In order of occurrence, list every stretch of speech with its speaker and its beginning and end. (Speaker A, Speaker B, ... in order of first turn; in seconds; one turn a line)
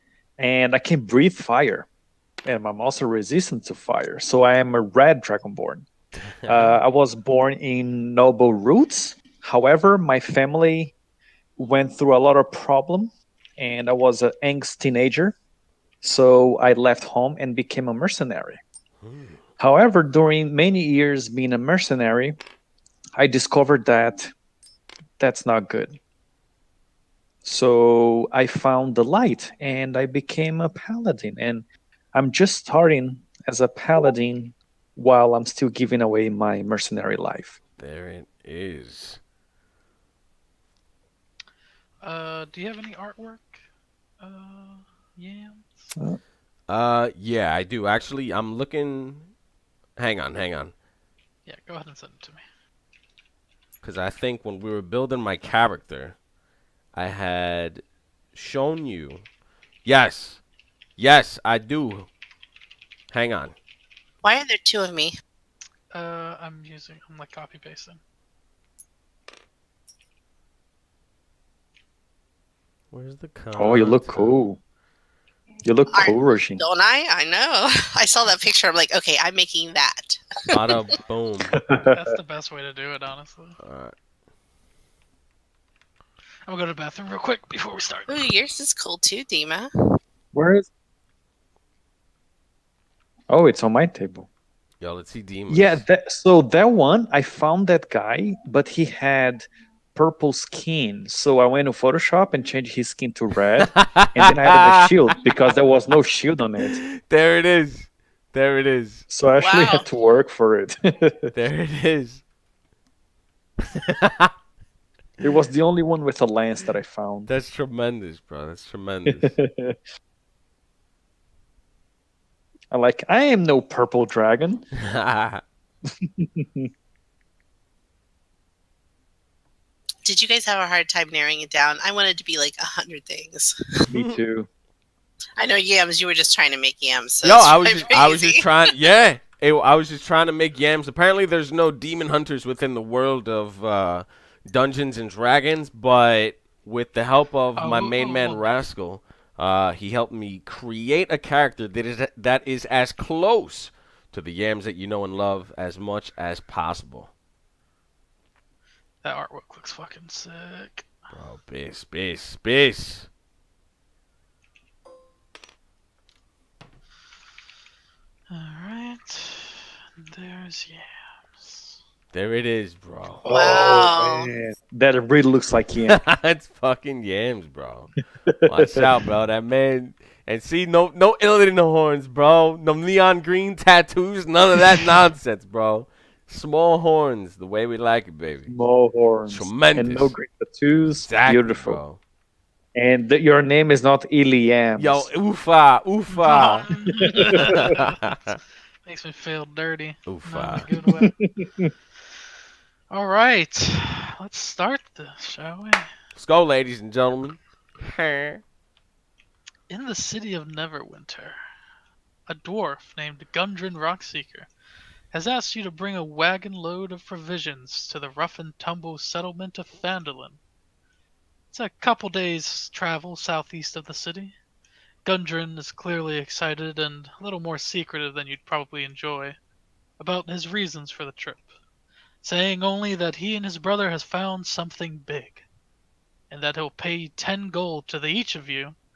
Speaker A: 0.4-1.9
Speaker A: 2.5-5.9
Speaker B: 6.4-6.8
Speaker A: 6.5-10.9
Speaker A: 11.6-15.4
Speaker A: 16.0-18.6
Speaker B: 19.0-19.4
Speaker A: 19.6-22.4
Speaker A: 23.2-24.3
Speaker A: 25.2-26.0
Speaker A: 27.4-37.6
Speaker B: 37.8-39.2
Speaker C: 42.0-43.6
Speaker C: 44.2-45.9
Speaker B: 46.7-49.3
Speaker B: 50.0-50.7
Speaker C: 51.5-52.5
Speaker B: 53.8-56.2
Speaker B: 56.9-59.3
Speaker B: 59.9-60.4
Speaker B: 61.0-62.1
Speaker B: 63.1-63.6
Speaker D: 64.2-65.1
Speaker C: 65.9-68.0
Speaker B: 72.9-74.4
Speaker A: 73.5-74.6
Speaker A: 75.7-76.6
Speaker D: 75.9-80.7
Speaker B: 80.5-81.6
Speaker A: 81.5-81.9
Speaker C: 81.9-83.6
Speaker B: 83.6-83.9
Speaker C: 86.5-88.3
Speaker D: 88.1-89.7
Speaker A: 90.3-90.7
Speaker A: 93.3-94.3
Speaker B: 94.8-95.8
Speaker A: 95.5-106.8
Speaker B: 103.7-104.8
Speaker B: 106.6-109.0
Speaker A: 109.1-111.3
Speaker D: 109.4-109.8
Speaker B: 111.3-112.2
Speaker B: 113.7-114.3
Speaker A: 115.2-117.3
Speaker B: 117.3-119.3
Speaker A: 119.1-119.8
Speaker A: 122.7-124.7
Speaker B: 124.8-125.4
Speaker A: 126.0-126.7
Speaker D: 130.1-133.6
Speaker A: 133.9-134.5
Speaker B: 133.9-134.2
Speaker D: 135.4-138.5
Speaker B: 137.2-157.1
Speaker C: 147.6-148.6
Speaker C: 159.0-160.9
Speaker B: 161.1-163.1
Speaker C: 168.3-171.8
Speaker B: 172.1-173.3
Speaker A: 173.2-176.0
Speaker D: 173.3-174.3
Speaker B: 175.9-177.9
Speaker A: 178.3-178.8
Speaker B: 178.5-188.5
Speaker A: 188.5-191.8
Speaker B: 189.3-190.1
Speaker B: 191.0-192.0
Speaker A: 192.8-195.1
Speaker B: 194.8-196.7
Speaker C: 196.1-201.1
Speaker B: 197.3-198.3
Speaker B: 200.1-200.7
Speaker A: 201.1-201.7
Speaker C: 202.9-205.9
Speaker B: 206.2-208.4
Speaker C: 209.7-211.4
Speaker C: 212.3-214.5
Speaker C: 215.1-220.4
Speaker C: 221.5-224.3
Speaker C: 225.1-229.4
Speaker C: 230.0-231.6
Speaker C: 232.2-235.5
Speaker C: 236.3-238.8